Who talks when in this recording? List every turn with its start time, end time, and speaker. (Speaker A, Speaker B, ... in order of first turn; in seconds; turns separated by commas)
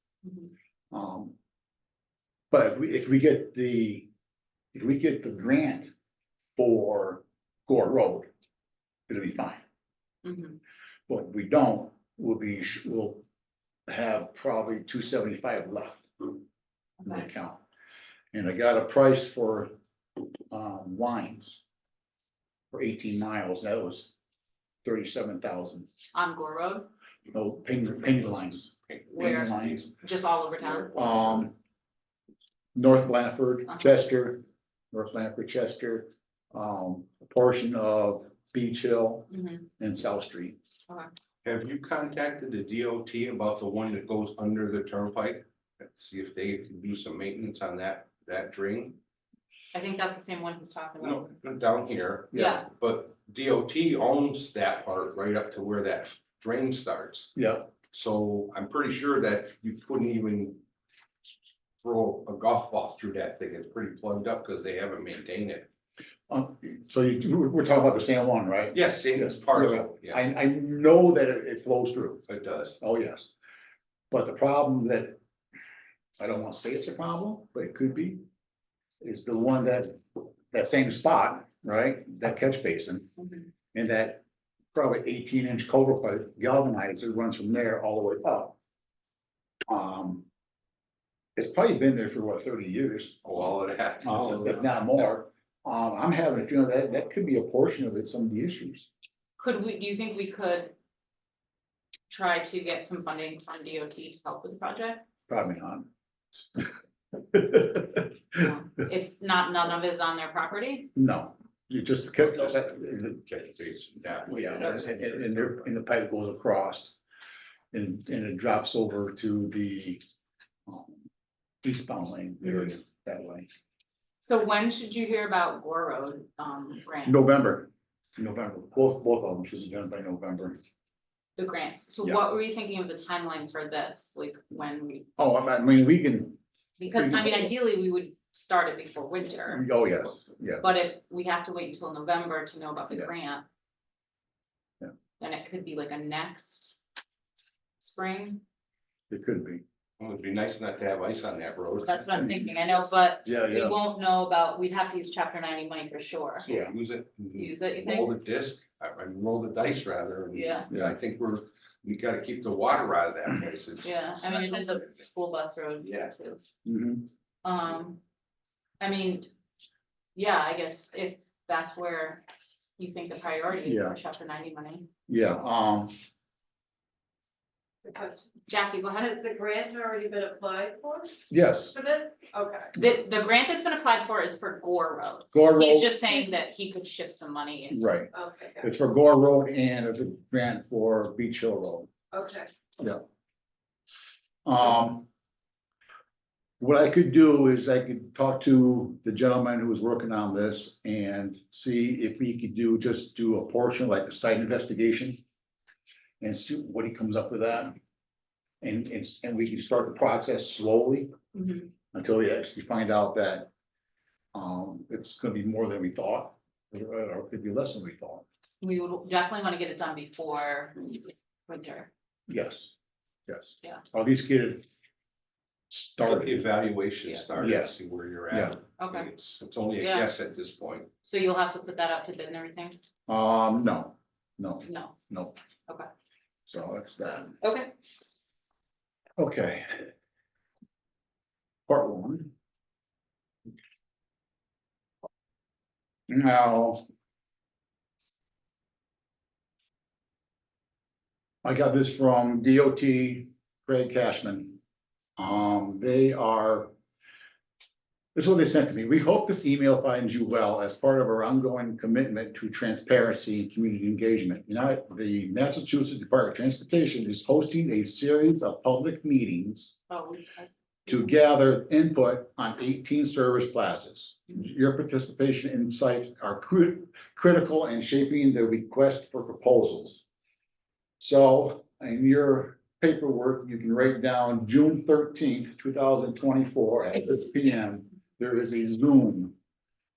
Speaker A: 0.2-0.5, Speaker B: 0.9-1.3, Speaker B: 2.5-4.1, Speaker B: 4.7-5.9, Speaker B: 6.5-8.3, Speaker B: 9.1-9.6, Speaker A: 10.2-10.6, Speaker B: 11.1-13.2, Speaker B: 13.9-16.4, Speaker A: 17.0-17.3, Speaker B: 17.0-17.6, Speaker B: 18.3-19.7, Speaker B: 20.5-21.6, Speaker B: 22.7-24.1, Speaker B: 24.8-25.9, Speaker A: 26.1-26.9, Speaker B: 27.3-29.9, Speaker A: 29.1-31.2, Speaker B: 30.9-31.5, Speaker B: 32.7-40.6, Speaker A: 39.3-39.7, Speaker C: 41.4-49.0, Speaker A: 49.7-51.4, Speaker C: 51.0-57.3, Speaker B: 52.3-52.6, Speaker A: 52.3-52.6, Speaker B: 57.4-57.7, Speaker C: 57.9-60.6, Speaker C: 61.8-65.7, Speaker B: 66.3-72.3, Speaker C: 68.7-70.2, Speaker C: 72.3-72.8, Speaker B: 72.8-73.3, Speaker B: 74.1-75.2, Speaker B: 76.2-78.2, Speaker B: 79.0-83.2, Speaker B: 83.7-84.2, Speaker B: 84.7-88.6, Speaker B: 89.7-90.2, Speaker B: 91.3-93.3, Speaker C: 93.2-94.6, Speaker B: 94.0-98.9, Speaker A: 99.4-100.7, Speaker A: 102.1-105.0, Speaker B: 105.3-105.9, Speaker B: 107.3-108.4, Speaker A: 108.3-110.9, Speaker B: 110.9-113.2, Speaker C: 112.2-115.7, Speaker B: 114.2-117.0, Speaker B: 117.7-120.0, Speaker B: 120.7-121.0, Speaker B: 121.6-123.5, Speaker A: 124.2-127.2, Speaker B: 127.0-130.7, Speaker A: 131.4-135.1, Speaker B: 135.2-137.5, Speaker A: 136.8-139.7, Speaker B: 139.5-140.6, Speaker A: 140.6-143.4, Speaker A: 145.2-146.8, Speaker A: 147.8-148.4, Speaker B: 149.1-149.6, Speaker C: 150.0-152.1, Speaker A: 151.8-156.5, Speaker B: 152.1-152.6, Speaker B: 153.2-153.8, Speaker C: 156.4-164.5, Speaker B: 156.4-156.8, Speaker A: 157.3-158.1, Speaker A: 160.3-160.7, Speaker B: 160.7-161.0, Speaker A: 163.8-166.4, Speaker B: 166.6-167.1, Speaker A: 167.4-168.0, Speaker A: 168.8-169.3, Speaker A: 170.2-174.9, Speaker B: 173.6-174.0, Speaker B: 175.1-175.9, Speaker A: 177.9-180.7, Speaker D: 179.3-181.1, Speaker B: 181.3-181.7, Speaker D: 181.8-182.7, Speaker A: 182.7-188.2, Speaker B: 185.3-186.0, Speaker B: 187.7-191.9, Speaker D: 188.2-188.6, Speaker D: 192.1-192.4, Speaker B: 194.4-195.1, Speaker B: 196.6-205.2, Speaker B: 206.2-207.8, Speaker B: 208.6-211.1, Speaker A: 211.3-211.7, Speaker B: 211.9-213.5, Speaker B: 214.3-218.2, Speaker A: 218.6-221.9, Speaker B: 222.3-222.7, Speaker B: 223.3-224.7, Speaker B: 225.7-226.5, Speaker C: 226.0-230.9, Speaker B: 227.3-227.8, Speaker B: 228.3-228.6, Speaker A: 228.8-229.1, Speaker A: 229.8-230.1, Speaker A: 231.0-232.8, Speaker B: 233.1-235.3, Speaker A: 234.6-234.9, Speaker B: 236.4-237.4, Speaker A: 237.4-237.7, Speaker B: 239.2-239.9, Speaker B: 241.7-242.3, Speaker B: 246.1-246.8, Speaker B: 251.4-254.6, Speaker B: 255.2-256.7, Speaker B: 258.1-269.8, Speaker A: 269.9-271.0, Speaker B: 270.9-280.0, Speaker B: 281.0-289.3